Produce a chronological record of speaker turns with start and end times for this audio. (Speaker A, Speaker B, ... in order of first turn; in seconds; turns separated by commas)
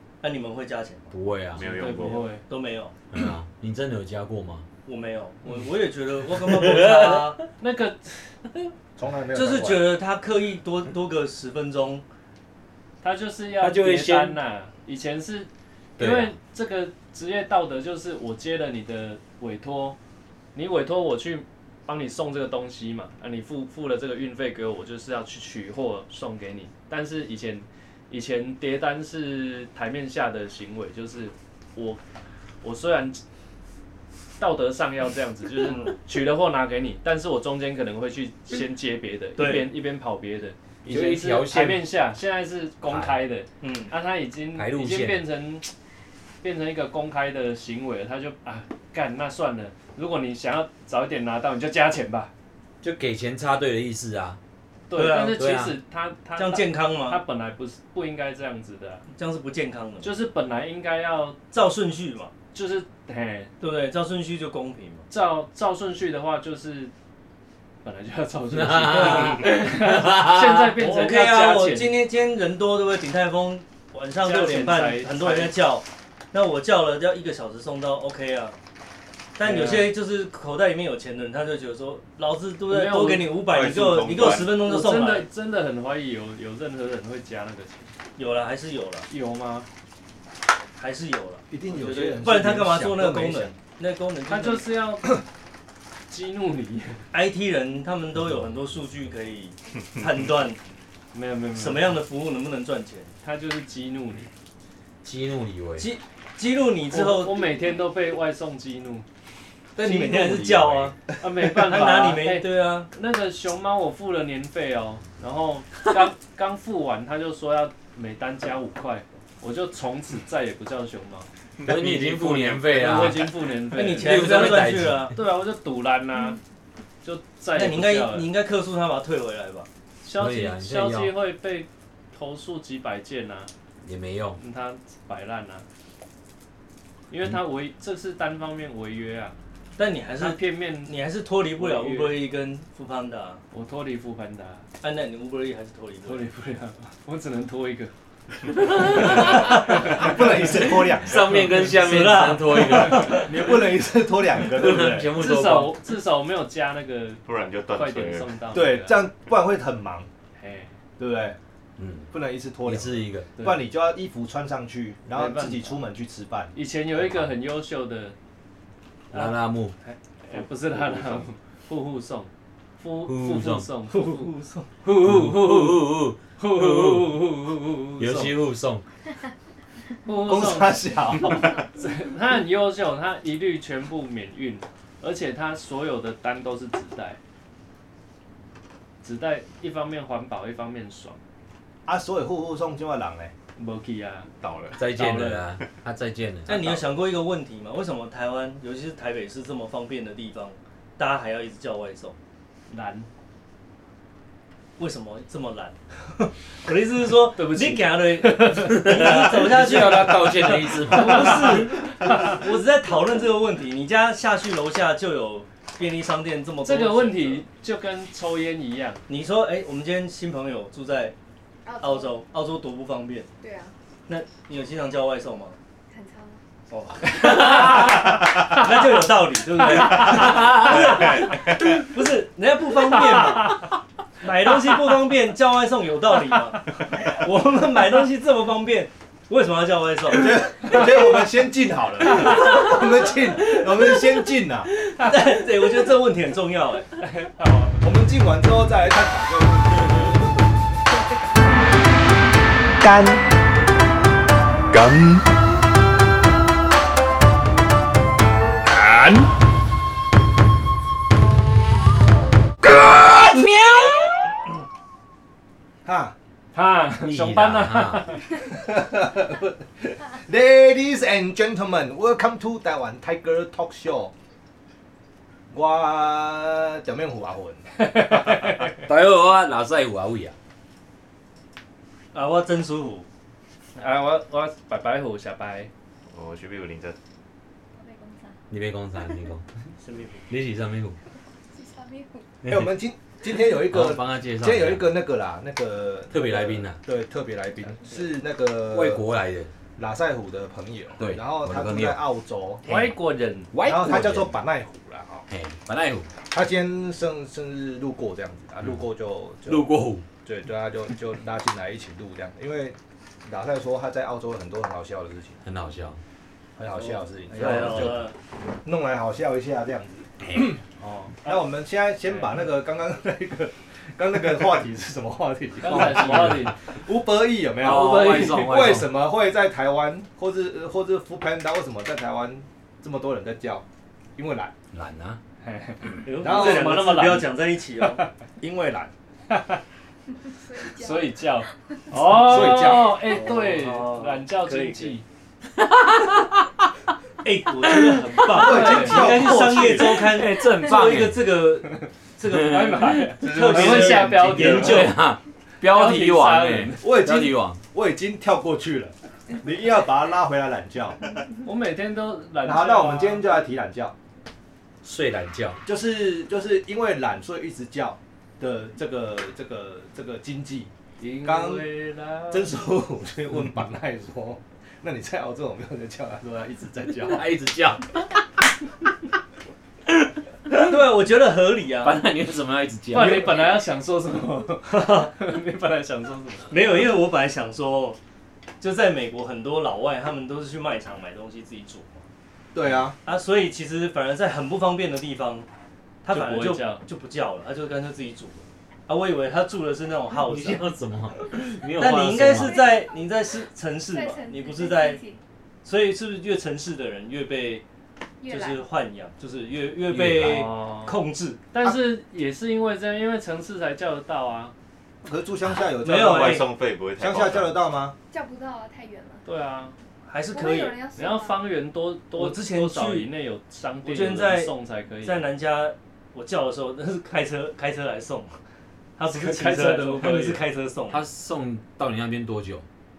Speaker A: 0.2-1.1, Speaker B: 1.1-1.9, Speaker C: 1.5-2.4, Speaker D: 1.6-2.4, Speaker A: 2.0-2.9, Speaker B: 3.1-4.7, Speaker A: 4.8-7.4, Speaker B: 6.4-7.3, Speaker D: 7.6-8.2, Speaker E: 9.0-9.9, Speaker A: 9.3-12.0, Speaker D: 13.0-20.0, Speaker B: 13.6-14.4, Speaker B: 16.0-16.4, Speaker D: 20.5-32.0, Speaker D: 32.6-33.2, Speaker D: 34.4-45.7, Speaker A: 35.6-36.0, Speaker A: 39.4-39.7, Speaker B: 40.9-41.9, Speaker B: 42.9-43.2, Speaker A: 43.6-43.9, Speaker B: 44.5-45.2, Speaker D: 46.4-52.3, Speaker B: 52.8-54.4, Speaker D: 54.9-59.0, Speaker A: 54.9-55.4, Speaker B: 55.4-55.8, Speaker A: 56.4-57.2, Speaker A: 59.1-60.1, Speaker D: 60.0-61.4, Speaker A: 61.5-62.3, Speaker D: 62.5-63.5, Speaker A: 63.6-65.0, Speaker D: 65.1-66.9, Speaker D: 67.8-72.0, Speaker B: 68.5-70.8, Speaker A: 69.0-69.4, Speaker A: 70.8-78.5, Speaker D: 74.2-75.5, Speaker A: 79.4-85.3, Speaker D: 79.4-79.9, Speaker D: 82.7-83.4, Speaker C: 83.4-84.6, Speaker D: 84.3-87.9, Speaker A: 88.2-89.1, Speaker D: 89.1-89.7, Speaker A: 90.8-94.7, Speaker E: 91.5-93.5, Speaker D: 94.3-95.2, Speaker D: 96.1-97.0, Speaker A: 97.1-100.6, Speaker D: 101.1-102.0, Speaker A: 101.5-103.1, Speaker D: 103.2-104.3, Speaker B: 105.0-105.9, Speaker A: 105.8-107.5, Speaker D: 106.9-109.0, Speaker A: 109.8-112.9, Speaker E: 109.8-110.9, Speaker D: 111.2-126.4, Speaker B: 121.6-123.3, Speaker A: 123.7-125.1, Speaker B: 123.9-125.1, Speaker D: 127.0-128.3, Speaker A: 127.5-129.7, Speaker D: 130.0-133.5, Speaker B: 130.2-131.1, Speaker B: 133.8-134.4, Speaker D: 134.4-135.7, Speaker D: 137.1-139.3, Speaker A: 139.8-143.4, Speaker D: 140.2-140.9, Speaker D: 141.6-142.2, Speaker D: 143.5-144.6, Speaker A: 144.8-146.2, Speaker D: 146.0-147.9, Speaker D: 148.5-150.2, Speaker E: 149.4-151.5, Speaker B: 151.0-153.3, Speaker A: 151.3-153.3, Speaker E: 153.0-155.1, Speaker B: 154.5-155.7, Speaker D: 155.1-159.1, Speaker C: 157.2-158.3, Speaker E: 158.5-160.1, Speaker D: 160.4-160.7, Speaker E: 161.0-161.4, Speaker B: 161.8-162.1, Speaker E: 162.1-166.5, Speaker B: 162.6-163.3, Speaker D: 163.4-163.6, Speaker D: 165.1-165.8, Speaker D: 166.5-168.2, Speaker B: 167.0-167.3, Speaker B: 169.1-169.8, Speaker D: 169.1-174.3, Speaker B: 173.1-173.7, Speaker A: 173.9-174.7, Speaker D: 174.8-175.8, Speaker B: 175.0-177.2, Speaker D: 176.4-178.3, Speaker B: 178.0-178.8, Speaker D: 180.0-187.2, Speaker E: 180.2-181.6, Speaker D: 189.0-191.2, Speaker E: 191.9-193.3, Speaker D: 193.6-194.3, Speaker C: 194.4-194.8, Speaker B: 194.8-196.9, Speaker D: 195.0-195.4, Speaker A: 196.5-202.2, Speaker D: 202.7-203.1, Speaker A: 204.8-217.4, Speaker D: 207.4-210.2, Speaker B: 208.7-211.7, Speaker D: 210.9-212.4, Speaker D: 216.6-219.0, Speaker A: 219.1-221.1, Speaker F: 221.6-222.2, Speaker A: 221.8-223.3, Speaker F: 223.4-223.7, Speaker A: 224.1-225.6, Speaker F: 225.9-226.4, Speaker A: 226.7-233.6, Speaker D: 227.0-228.6, Speaker D: 229.6-231.2, Speaker C: 230.0-231.9, Speaker D: 233.4-233.6, Speaker A: 234.2-240.8, Speaker E: 240.1-244.7, Speaker D: 245.0-245.2, Speaker A: 245.0-247.0, Speaker D: 247.0-247.8, Speaker E: 247.8-250.4, Speaker E: 252.8-253.2, Speaker E: 254.7-255.2, Speaker B: 262.8-264.2, Speaker E: 265.9-266.1, Speaker D: 266.5-268.2, Speaker B: 267.0-268.1, Speaker E: 268.4-274.1, Speaker E: 275.5-278.1, Speaker D: 277.8-278.8, Speaker B: 278.6-280.4, Speaker A: 282.1-283.1, Speaker D: 283.8-285.7, Speaker C: 286.1-287.0, Speaker F: 287.8-288.4, Speaker B: 288.5-289.4, Speaker A: 289.8-290.2, Speaker B: 290.3-291.0, Speaker F: 291.5-292.3, Speaker B: 292.4-292.7, Speaker E: 292.4-299.0, Speaker B: 293.7-294.9, Speaker B: 296.1-296.8, Speaker B: 298.7-299.5, Speaker E: 299.8-302.6, Speaker B: 301.0-302.0, Speaker D: 302.6-303.5, Speaker B: 302.7-302.9, Speaker B: 303.5-304.4, Speaker E: 303.6-305.3, Speaker B: 305.3-306.1, Speaker E: 306.3-315.4, Speaker B: 309.5-310.0, Speaker B: 315.4-316.0, Speaker E: 316.6-318.1, Speaker A: 317.3-318.1, Speaker B: 317.6-318.0, Speaker E: 318.6-320.6, Speaker D: 320.8-321.3, Speaker E: 321.2-333.6, Speaker D: 325.6-326.6, Speaker B: 325.6-326.5, Speaker B: 327.6-328.9, Speaker D: 327.6-328.6, Speaker E: 334.2-334.5, Speaker B: 334.7-335.2, Speaker D: 335.4-337.3, Speaker A: 336.0-338.0, Speaker E: 336.2-336.8, Speaker E: 338.4-338.9, Speaker D: 339.3-339.6, Speaker F: 340.2-341.4, Speaker D: 340.6-345.0, Speaker E: 342.0-343.1, Speaker A: 343.0-345.0, Speaker B: 345.6-346.4, Speaker A: 347.2-354.9, Speaker B: 347.7-348.5, Speaker E: 348.3-350.0, Speaker D: 348.4-351.1, Speaker B: 349.8-351.2, Speaker D: 352.2-355.0, Speaker B: 352.3-352.9, Speaker C: 353.2-354.6, Speaker B: 354.3-357.6, Speaker D: 355.6-356.9, Speaker E: 356.8-361.0, Speaker D: 361.4-363.3, Speaker E: 362.4-363.9, Speaker B: 364.8-365.6, Speaker E: 365.6-370.7, Speaker D: 371.0-372.6, Speaker E: 371.2-371.7, Speaker E: 372.3-377.3, Speaker B: 377.1-378.0, Speaker A: 380.5-382.0, Speaker B: 381.8-383.5, Speaker D: 382.9-386.6, Speaker A: 384.7-385.1, Speaker A: 386.5-388.0, Speaker A: 388.6-392.1, Speaker E: 392.5-393.0, Speaker A: 393.0-395.5, Speaker A: 396.0-400.7, Speaker D: 396.1-396.8, Speaker B: 400.2-402.6, Speaker A: 401.8-405.0, Speaker F: 402.2-403.1, Speaker F: 403.9-405.2, Speaker A: 405.6-407.6, Speaker F: 408.2-408.7, Speaker A: 408.2-411.4, Speaker B: 409.9-410.5, Speaker D: 410.2-411.0, Speaker D: 411.5-414.5, Speaker E: 415.0-416.5, Speaker A: 415.8-416.5, Speaker C: 415.9-417.6, Speaker E: 417.0-417.9, Speaker F: 418.1-419.2, Speaker D: 419.2-419.7, Speaker A: 420.1-420.8, Speaker F: 420.3-421.4, Speaker D: 421.0-425.2, Speaker A: 422.1-423.1, Speaker A: 423.8-424.5, Speaker A: 425.0-428.4, Speaker A: 429.0-431.1, Speaker D: 429.1-430.4, Speaker B: 430.9-432.6